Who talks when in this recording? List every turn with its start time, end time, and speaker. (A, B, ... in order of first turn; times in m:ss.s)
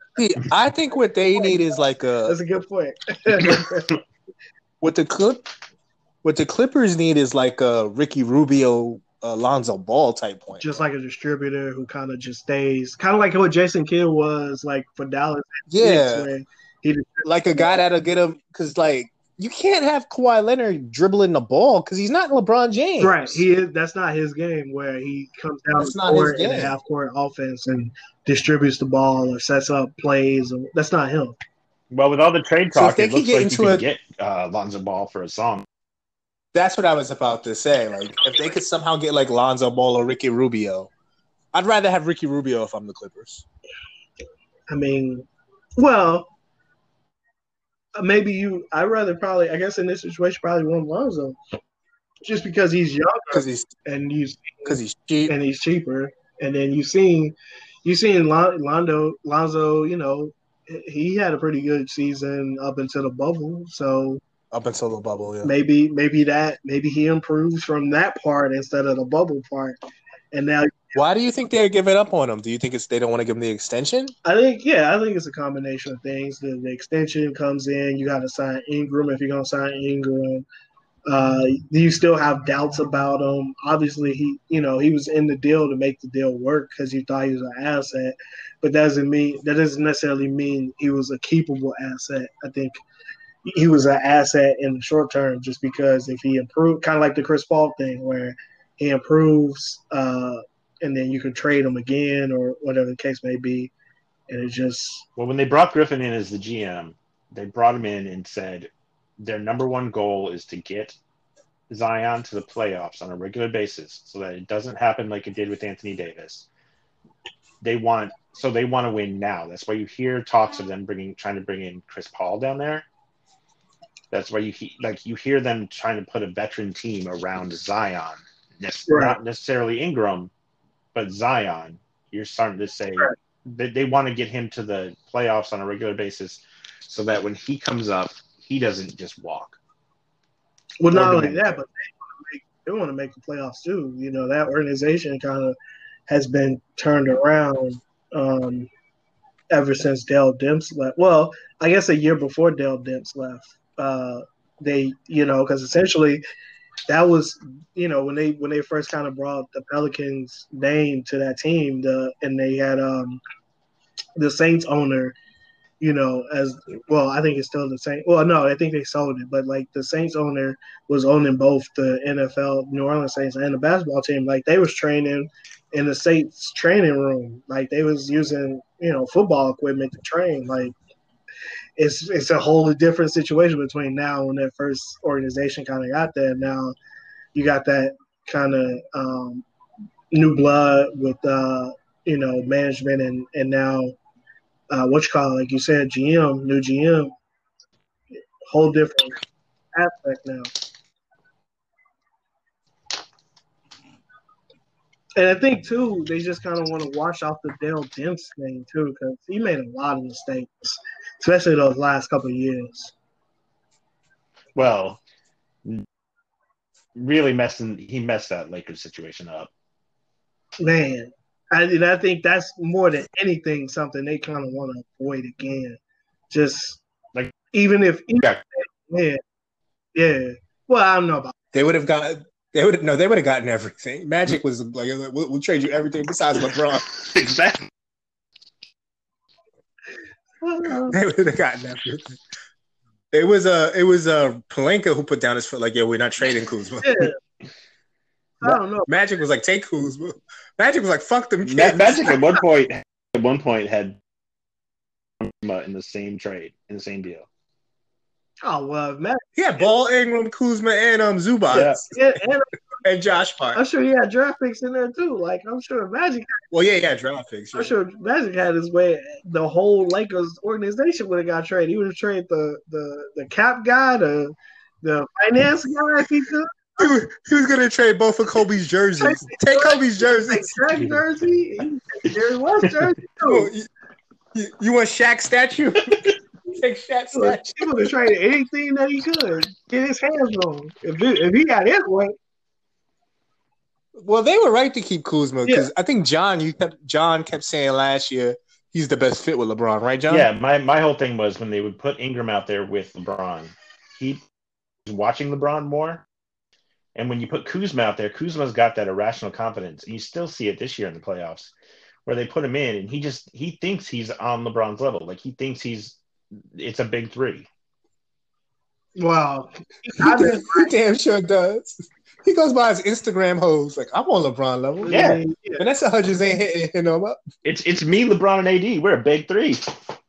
0:00.2-0:02.4 A
0:02.2-0:03.9 B
0:04.8-0:05.5 A
0:06.2-0:10.8 A
0:10.6-0:17.8 B
0:15.7-0:16.3 A
0:17.2-0:23.4 A
0:23.0-0:31.4 B
0:25.8-0:26.7 A
0:31.9-0:35.6 C
0:32.7-0:33.9 A
0:36.5-0:40.9 A
0:41.5-0:43.4 A
0:44.7-0:46.3 B
0:48.0-0:51.4 B
0:52.2-1:04.2 B
0:53.3-0:53.7 A
0:54.6-0:55.3 A
1:04.5-1:05.5 A
1:05.4-1:09.8 B
1:10.3-1:11.0 B
1:10.9-1:14.1 A
1:14.2-1:20.4 B
1:21.1-1:32.8 B
1:33.4-1:43.7 B
1:44.3-1:45.0 B
1:45.2-1:51.0 C
1:51.7-1:56.5 C
1:57.6-2:02.9 C
2:04.1-2:10.3 C
2:08.9-2:09.2 B
2:10.9-2:19.6 C
2:20.8-2:25.6 B
2:20.9-2:21.6 C
2:26.1-2:28.7 B
2:29.5-2:36.2 B
2:36.9-2:43.2 B
2:44.2-2:45.1 B
2:45.8-3:00.7 B
3:01.8-3:06.7 B
3:07.3-3:09.4 B
3:10.1-3:14.0 B
3:14.7-3:17.1 B
3:18.4-3:19.2 B
3:19.7-3:20.5 B
3:25.2-3:32.9 B
3:34.5-3:35.0 C
3:36.9-3:39.5 C
3:40.6-3:45.8 B
3:46.3-3:46.8 B
3:47.5-3:49.2 B
3:49.9-3:51.3 B
3:51.5-3:56.9 A
3:56.8-3:57.7 C
4:00.4-4:01.0 B
4:00.9-4:02.2 A
4:03.1-4:07.1 A
4:06.8-4:07.2 B
4:08.4-4:08.9 B
4:08.4-4:12.2 A
4:11.4-4:14.0 C
4:15.2-4:17.2 C
4:18.4-4:19.2 B
4:19.4-4:21.9 A
4:21.5-4:21.8 C
4:21.6-4:22.5 B
4:22.8-4:23.6 A
4:23.5-4:26.4 B
4:26.5-4:27.7 A
4:27.5-4:36.9 B
4:36.8-4:40.6 A
4:39.0-4:43.5 B
4:43.2-4:43.7 A
4:44.3-4:47.7 A
4:47.1-4:52.1 B
4:53.9-5:00.3 A
5:00.1-5:04.2 C
5:04.9-5:06.0 C
5:06.9-5:11.5 C
5:12.0-5:16.0 C
5:16.5-5:17.5 C
5:19.0-5:20.7 B
5:20.0-5:27.2 A
5:24.8-5:25.6 B
5:24.9-5:25.2 C
5:27.4-5:29.7 C